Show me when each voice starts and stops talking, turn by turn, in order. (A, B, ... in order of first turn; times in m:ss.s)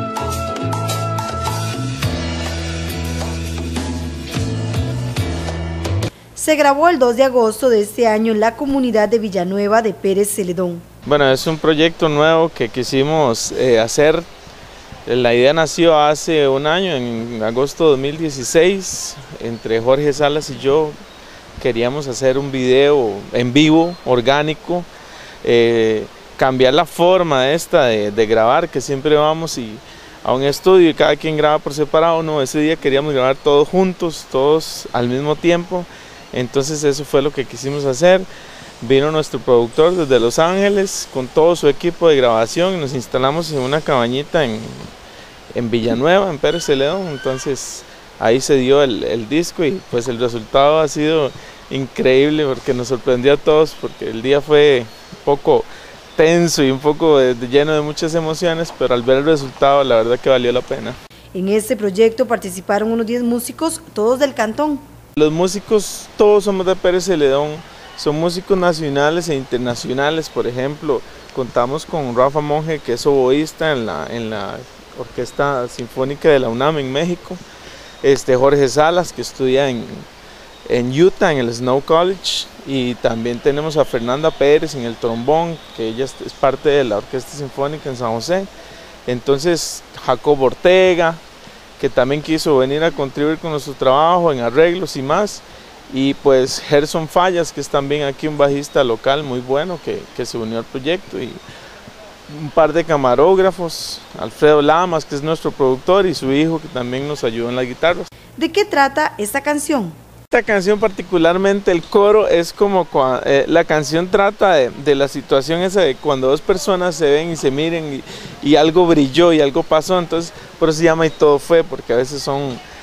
0:06.4-0:10.8 A
0:11.1-0:14.3 B
0:15.1-0:21.0 B
0:21.6-0:24.9 B
0:25.4-0:38.3 B
0:38.8-0:44.9 B
0:45.5-1:01.0 B
1:01.3-1:04.8 A
1:05.2-1:17.4 B
1:18.0-1:20.1 B
1:20.7-1:28.5 B
1:29.1-1:31.2 B
1:31.8-1:41.4 B
1:42.3-1:48.1 B
1:48.4-1:50.0 A
1:50.3-2:02.6 B